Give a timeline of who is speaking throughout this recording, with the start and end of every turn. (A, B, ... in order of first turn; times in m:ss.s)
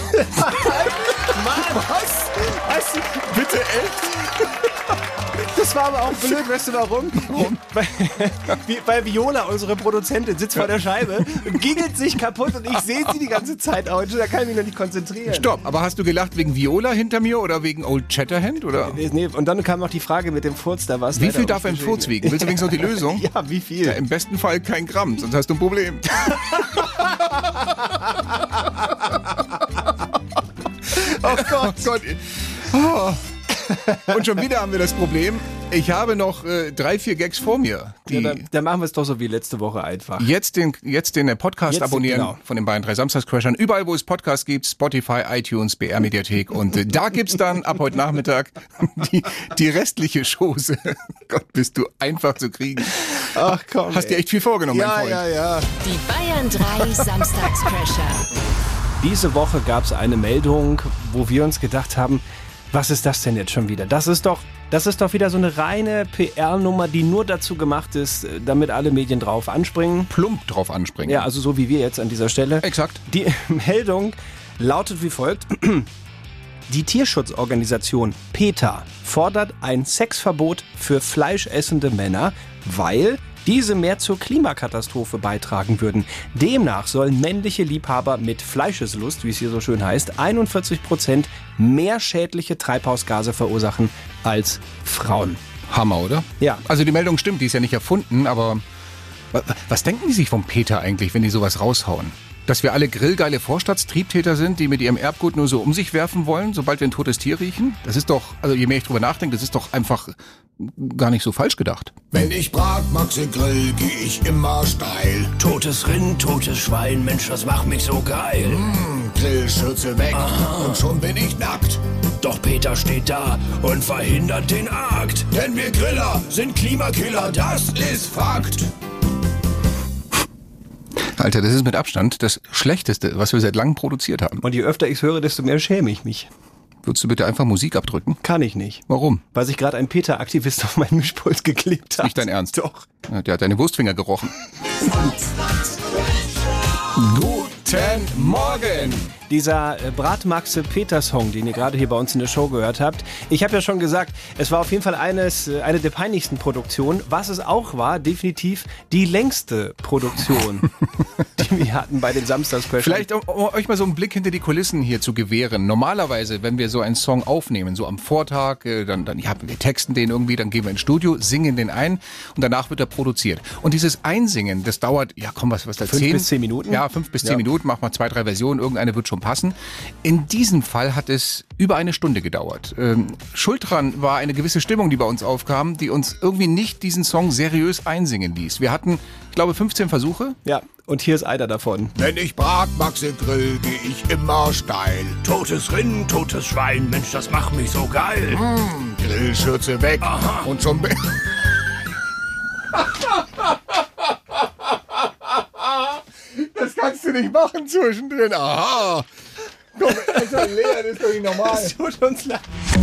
0:00.2-0:04.1 A
0:05.4-0:15.5 A
0:07.3-0:07.6 B
0:15.3-0:19.0 B
0:18.8-0:24.0 A
0:21.1-0:23.2 B
0:23.8-0:26.8 B
0:31.0-0:31.9 A
0:31.0-0:38.4 B
0:38.1-0:40.3 A
0:40.2-0:53.3 B
0:41.7-0:42.4 A
0:53.3-0:55.7 A
0:53.9-0:55.3 B
0:55.8-0:58.2 C
0:59.0-1:10.1 A
1:10.1-1:11.3 B
1:11.0-1:15.9 A
1:12.6-1:13.0 B
1:16.7-1:35.4 A
1:35.7-1:38.6 B
1:39.3-1:52.1 B
1:52.1-1:55.3 D
1:55.4-1:58.8 E
1:58.4-2:01.8 D
2:00.1-2:00.9 E
2:02.2-2:05.4 E
2:05.3-2:06.3 D
2:06.1-2:08.0 E
2:07.6-2:08.7 D
2:11.1-2:14.4 B
2:14.4-2:16.3 A
2:16.8-2:18.2 B
2:18.2-2:22.8 A
2:18.9-2:19.2 B
2:22.0-2:24.3 B
2:26.9-2:29.1 B
2:29.2-2:40.7 A
2:41.4-2:43.1 A
2:42.8-3:10.4 B
2:55.9-2:57.4 A
3:10.4-3:11.9 A
3:11.9-3:15.2 D
3:15.2-3:18.4 E
3:18.3-3:20.9 D
3:20.0-3:20.4 E
3:25.7-3:29.0 B
3:29.8-3:31.7 B
3:29.9-3:30.5 A
3:31.3-3:32.4 A